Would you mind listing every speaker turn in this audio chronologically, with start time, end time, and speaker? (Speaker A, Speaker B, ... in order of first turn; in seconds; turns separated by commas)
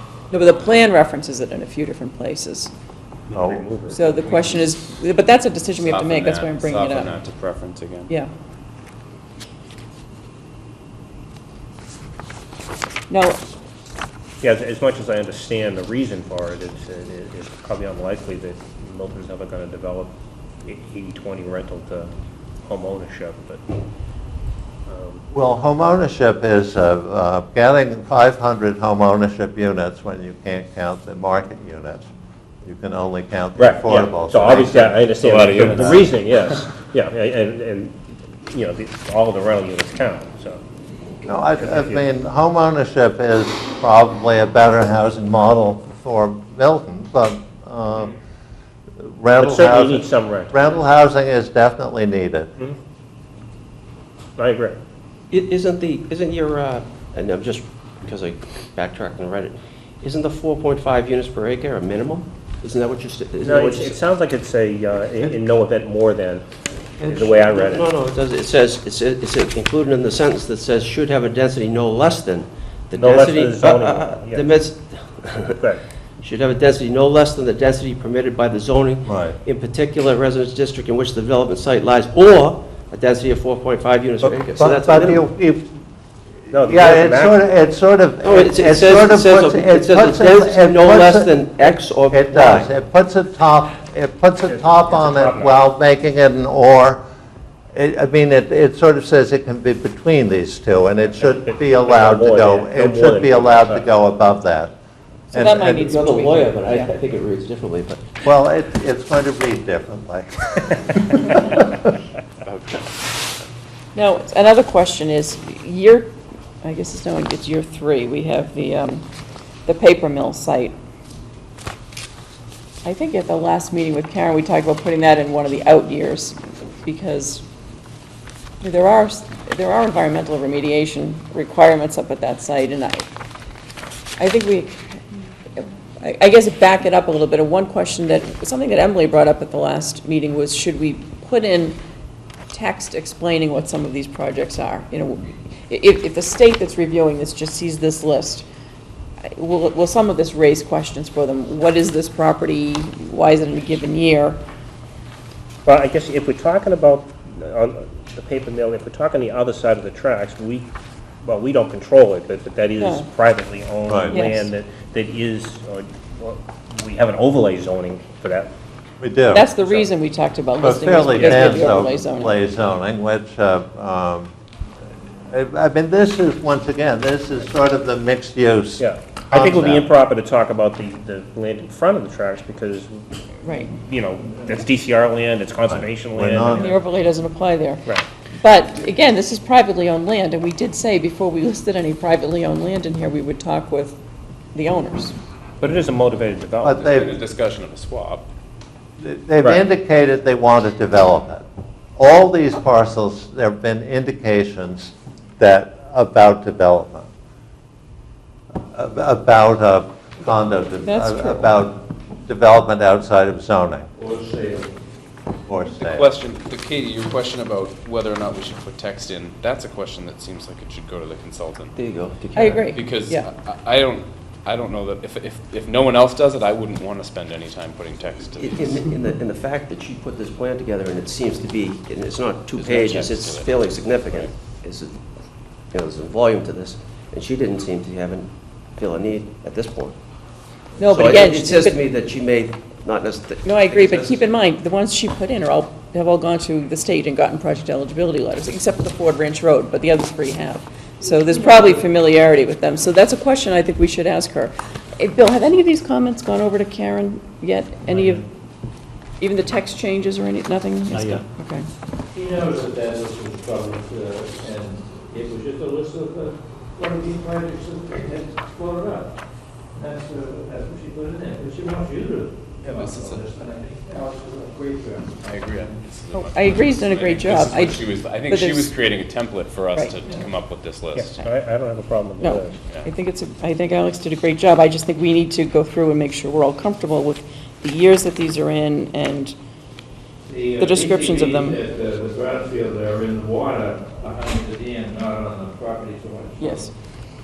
Speaker A: 0.3-2.7, Speaker B: 3.3-4.6, Speaker A: 3.9-7.1, Speaker C: 5.9-8.1, Speaker A: 13.1-13.4, Speaker B: 14.4-22.1, Speaker B: 22.6-23.6, Speaker B: 24.9-25.2, Speaker D: 25.3-32.1, Speaker D: 32.6-35.5, Speaker B: 33.5-40.6, Speaker C: 35.5-36.0, Speaker D: 41.2-48.1, Speaker B: 41.6-42.1, Speaker D: 49.0-52.5, Speaker B: 49.4-50.6, Speaker B: 54.4-54.8, Speaker E: 55.3-64.0, Speaker B: 63.4-66.4, Speaker B: 67.0-67.9, Speaker E: 67.0-75.6, Speaker B: 73.0-74.5, Speaker B: 75.6-75.8, Speaker E: 76.2-85.2, Speaker D: 79.0-79.4, Speaker D: 84.5-85.8, Speaker B: 86.5-87.5, Speaker D: 86.6-97.0, Speaker E: 88.2-92.7, Speaker B: 94.5-95.6, Speaker D: 97.7-104.8, Speaker B: 101.2-103.9, Speaker D: 105.3-105.8, Speaker A: 105.3-106.9, Speaker E: 105.8-108.2, Speaker D: 108.2-110.9, Speaker C: 112.4-112.9, Speaker A: 113.9-119.0, Speaker A: 119.7-120.7, Speaker A: 122.8-127.4, Speaker A: 128.6-133.1, Speaker A: 134.2-135.0, Speaker A: 135.5-141.8, Speaker A: 142.5-148.4, Speaker A: 149.2-154.4, Speaker B: 155.6-168.5, Speaker A: 162.8-163.1, Speaker A: 164.1-164.5, Speaker D: 169.0-169.4, Speaker A: 169.3-172.4, Speaker B: 169.6-169.9, Speaker D: 170.6-174.3, Speaker B: 171.3-171.7, Speaker D: 175.3-179.8, Speaker B: 178.8-183.1, Speaker A: 183.4-183.7, Speaker B: 183.6-186.7, Speaker D: 186.2-186.6, Speaker A: 186.5-194.0, Speaker A: 194.5-195.1, Speaker B: 195.6-196.8, Speaker D: 196.6-197.0, Speaker C: 196.8-198.3, Speaker D: 199.0-207.1, Speaker D: 208.7-213.9, Speaker A: 210.8-211.6, Speaker F: 214.0-214.7, Speaker D: 215.5-216.0, Speaker C: 215.8-221.8, Speaker E: 221.8-222.7, Speaker A: 222.3-223.3, Speaker C: 222.7-228.8, Speaker E: 228.4-235.0, Speaker C: 232.5-234.3, Speaker E: 235.7-239.9, Speaker A: 240.8-241.8, Speaker E: 240.9-244.3, Speaker A: 243.4-258.2, Speaker A: 259.2-261.6, Speaker D: 260.9-261.2, Speaker F: 262.1-269.1, Speaker F: 269.8-275.2, Speaker C: 272.6-273.3, Speaker C: 275.2-281.2, Speaker A: 276.1-278.8, Speaker B: 280.9-282.6, Speaker A: 282.2-289.4, Speaker F: 290.3-296.7, Speaker A: 290.6-291.6, Speaker A: 296.4-296.7